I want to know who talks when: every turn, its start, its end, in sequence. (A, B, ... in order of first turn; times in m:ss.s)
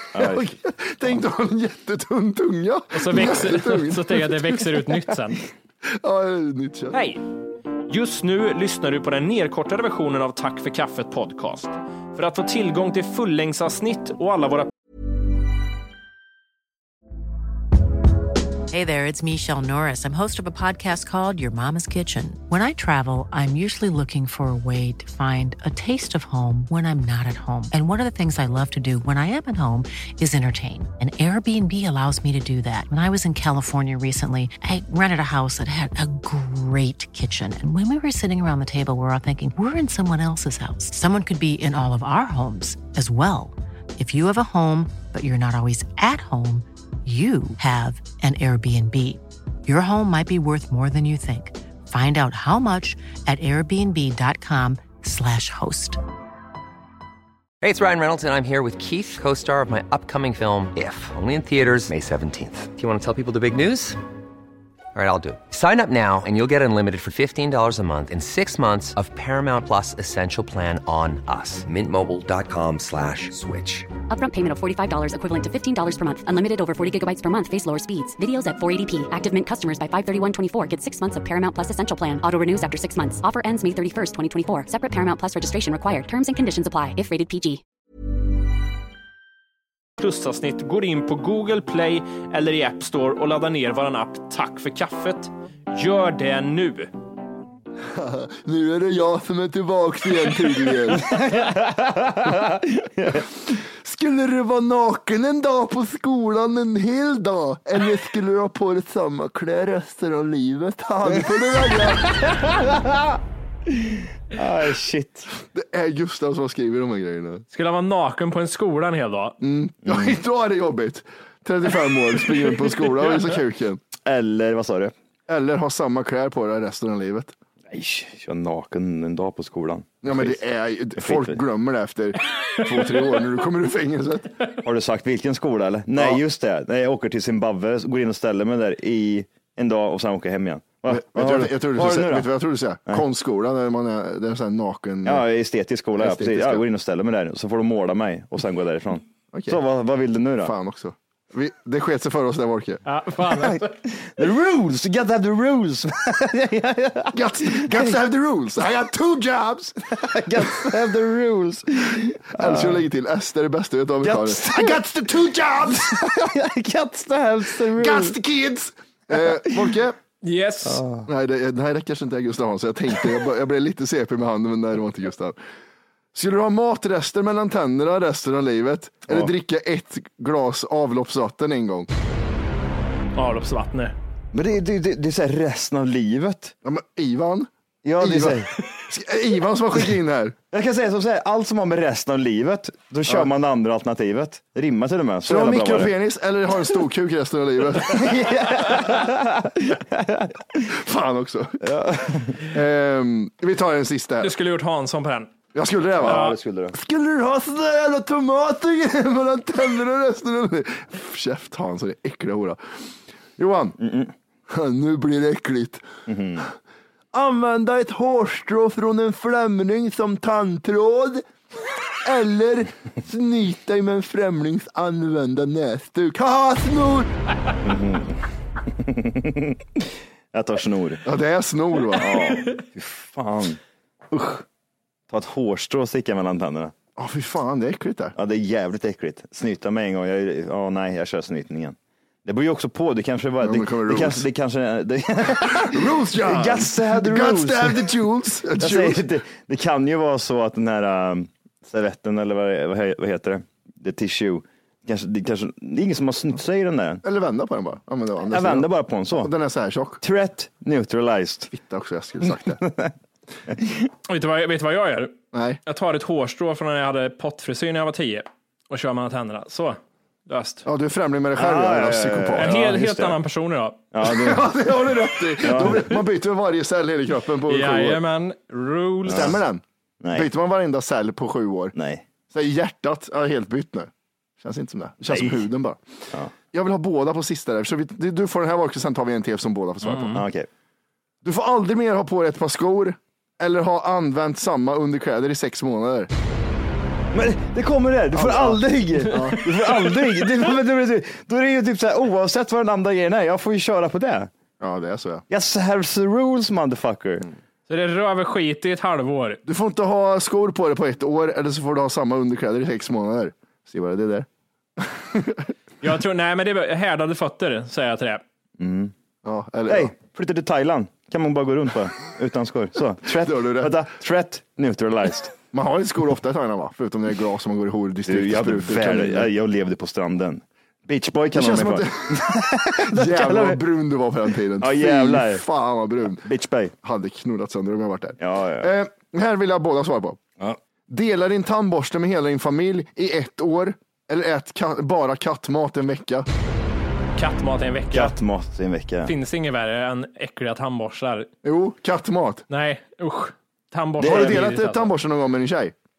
0:00.1-0:00.5 A
0:00.2-0:04.7 B
0:02.9-0:05.4 C
0:06.0-0:07.0 B
0:06.9-0:07.2 C
0:07.9-0:14.7 C
0:18.7-0:56.0 D
0:57.6-1:04.0 E
1:04.9-1:13.9 E
1:14.1-1:27.6 F
1:30.0-1:36.9 C
1:37.9-1:41.1 B
1:40.9-1:43.2 A
1:43.8-1:52.2 B
1:51.9-1:55.3 A
1:55.5-1:57.4 B
1:57.5-1:59.4 C
1:59.4-2:03.8 B
1:59.8-2:00.2 A
2:04.0-2:04.9 A
2:05.3-2:07.3 B
2:07.7-2:10.4 A
2:10.0-2:14.4 B
2:11.0-2:11.4 A
2:14.6-2:22.3 A
2:20.9-2:25.2 B
2:25.0-2:30.5 A
2:26.0-2:26.6 B
2:29.3-2:29.6 B
2:30.4-2:32.8 B
2:32.8-2:33.7 C
2:33.3-2:37.9 A
2:37.1-2:39.8 B
2:39.9-2:42.8 A
2:40.4-2:40.6 B
2:42.4-2:46.0 B
2:44.0-2:44.8 A
2:45.6-2:48.2 A
2:47.6-2:50.0 B
2:49.1-2:49.7 A
2:50.2-2:50.8 C
2:50.6-2:51.1 A
2:51.0-2:55.4 B
2:56.1-3:01.9 B
3:03.1-3:03.9 C
3:04.3-3:06.5 A
3:06.6-3:10.4 B
3:07.8-3:08.5 A
3:10.5-3:15.9 A
3:15.3-3:18.4 B
3:17.8-3:20.6 A
3:20.6-3:21.6 B
3:21.6-3:22.4 A
3:22.4-3:24.3 B
3:24.2-3:25.3 C
3:25.5-3:32.6 B
3:26.0-3:26.8 A
3:26.0-3:26.4 C
3:33.4-3:33.8 B
3:33.8-3:34.1 A
3:34.5-3:35.8 B
3:36.1-3:36.4 A
3:37.1-3:41.2 B
3:42.0-3:47.1 B
3:47.6-3:51.0 A
3:51.0-3:52.1 B
3:52.0-3:53.6 A
3:54.1-3:54.4 A
3:55.1-3:56.7 A
3:57.0-3:58.1 B
3:58.1-4:08.0 A
4:03.4-4:04.2 B
4:05.4-4:09.0 B
4:08.6-4:17.0 A
4:17.0-4:20.0 B
4:18.2-4:19.3 A
4:20.0-4:21.5 A
4:21.5-4:22.6 B
4:22.2-4:22.9 A
4:23.5-4:23.9 A
4:24.1-4:30.6 C
4:25.3-4:25.6 B
4:30.6-4:32.5 B
4:31.4-4:33.2 A
4:32.4-4:33.8 C
4:33.9-4:34.5 A
4:34.0-4:38.0 B
4:35.4-4:36.1 A
4:37.5-4:39.4 C
4:39.0-4:39.4 A
4:39.1-4:39.6 B
4:40.0-4:40.3 A
4:40.1-4:41.7 B
4:41.7-4:42.0 A
4:42.3-4:45.8 B
4:45.1-4:45.5 A
4:46.5-4:50.2 B
4:49.8-4:50.2 C
4:50.1-4:50.5 A
4:51.2-4:56.1 B
4:57.1-5:04.3 A
4:58.1-4:59.4 B
4:59.0-4:59.4 C
5:04.6-5:05.2 B
5:05.3-5:07.3 A
5:07.7-5:09.4 C
5:09.4-5:14.3 B
5:14.8-5:15.5 B
5:15.8-5:18.2 C
5:18.6-5:18.9 A
5:19.2-5:19.9 B
5:19.7-5:25.3 A
5:23.1-5:23.8 B
5:25.5-5:29.3 B
5:28.0-5:33.6 A
5:31.3-5:36.2 B
5:34.6-5:35.4 A
5:36.0-5:36.7 A
5:36.8-5:40.2 B
5:38.2-5:38.7 A
5:40.9-5:46.3 B
5:47.2-5:48.1 C
5:47.9-5:49.1 A
5:49.0-5:51.3 C
5:51.4-5:52.4 B
5:52.5-5:54.9 C
5:54.0-5:54.5 A
5:54.0-5:55.7 B